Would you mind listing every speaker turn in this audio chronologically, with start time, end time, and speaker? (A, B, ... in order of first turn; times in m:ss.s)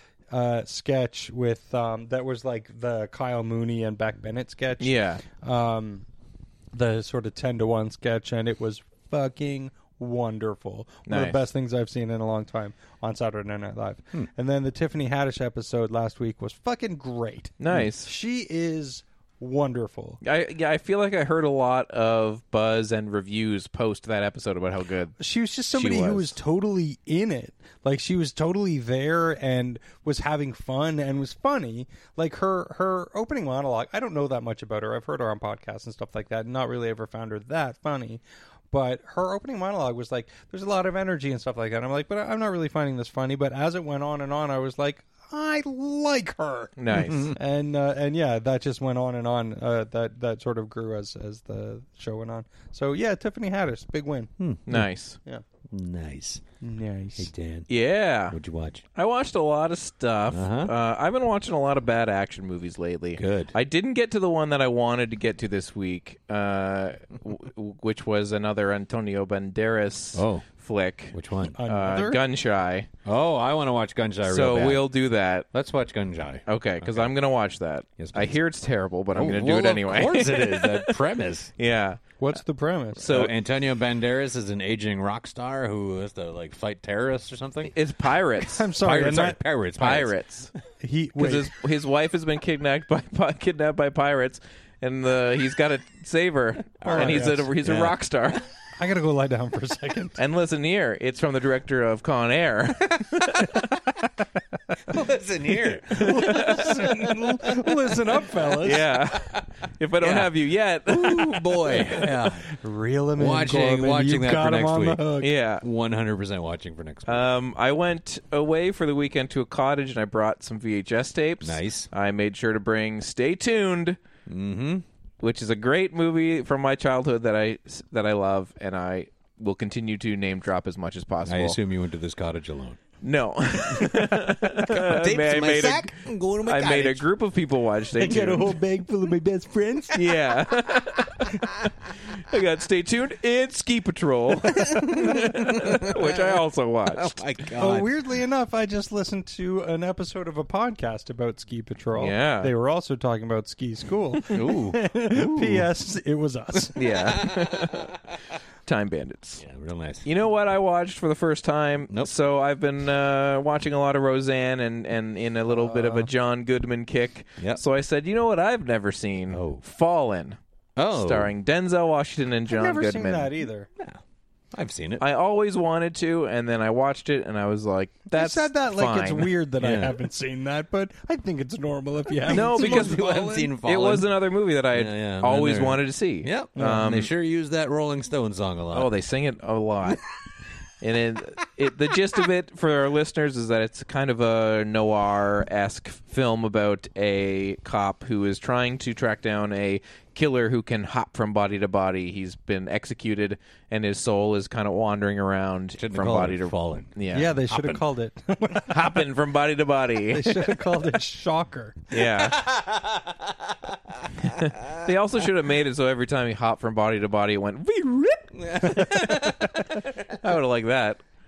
0:00.3-0:06.1 A
0:04.8-0:05.2 B
0:06.7-0:20.2 A
0:11.1-0:11.4 B
0:17.6-0:18.1 B
0:20.2-0:25.2 B
0:25.2-0:46.8 A
0:25.7-0:26.4 B
0:46.8-0:47.4 B
0:46.9-0:47.4 C
0:47.3-0:54.3 A
0:54.4-0:54.9 C
0:54.7-0:55.2 B
0:55.7-0:56.4 C
0:56.6-0:57.3 A
0:57.2-0:57.7 C
0:57.7-0:58.4 B
0:58.3-0:58.8 C
0:59.0-1:12.9 B
1:00.3-1:00.7 C
1:03.2-1:03.5 C
1:10.1-1:10.5 C
1:11.1-1:11.6 C
1:11.6-1:12.2 A
1:13.0-1:14.9 C
1:14.3-1:15.5 B
1:15.5-1:17.1 C
1:16.5-1:21.0 B
1:18.0-1:18.4 C
1:19.1-1:21.5 C
1:21.6-1:22.2 B
1:22.2-1:23.1 A
1:23.0-1:23.3 B
1:23.0-1:27.7 C
1:27.7-1:28.7 B
1:28.5-1:29.4 A
1:28.6-1:30.2 C
1:29.8-1:30.5 B
1:30.8-1:31.5 A
1:31.2-1:38.4 B
1:36.8-1:37.9 C
1:36.8-1:37.5 A
1:38.8-1:40.2 A
1:40.2-1:43.7 B
1:43.0-1:43.5 C
1:44.9-1:48.6 C
1:45.9-1:48.8 A
1:46.1-1:46.7 B
1:48.6-1:52.0 B
1:49.1-1:49.5 C
1:50.0-1:52.5 C
1:52.0-1:55.3 A
1:53.2-1:55.1 C
1:55.2-1:55.6 B
1:55.6-1:57.3 C
1:57.1-2:04.0 B
2:01.4-2:01.9 C
2:04.3-2:04.8 C
2:05.2-2:11.6 B
2:11.2-2:12.8 C
2:13.0-2:18.6 B
2:13.5-2:17.1 C
2:18.0-2:20.1 A
2:18.0-2:18.5 C
2:19.9-2:21.5 B
2:22.1-2:27.2 B
2:24.7-2:27.9 C
2:27.6-2:36.8 A
2:32.0-2:32.5 B
2:34.3-2:35.7 C
2:36.8-2:37.9 B
2:36.8-2:38.2 C
2:38.7-2:39.4 B
2:39.4-2:40.1 C
2:40.0-2:50.4 B
2:45.5-2:46.1 A
2:49.3-2:49.6 C
2:50.8-2:51.3 C
2:50.9-2:53.3 B
2:52.5-2:53.7 A
2:54.5-2:55.0 C
2:55.0-2:59.3 B
2:58.1-3:03.5 A
2:59.6-3:00.0 C
3:02.2-3:04.2 C
3:02.3-3:07.1 B
3:04.7-3:08.9 C
3:08.7-3:10.0 B
3:10.8-3:27.4 B
3:25.8-3:27.0 C
3:27.1-3:29.0 A
3:27.5-3:27.8 C
3:28.7-3:30.6 B
3:30.1-3:31.9 A
3:31.9-3:32.5 B
3:31.9-3:34.9 C
3:34.2-3:41.0 B
3:38.4-3:40.0 C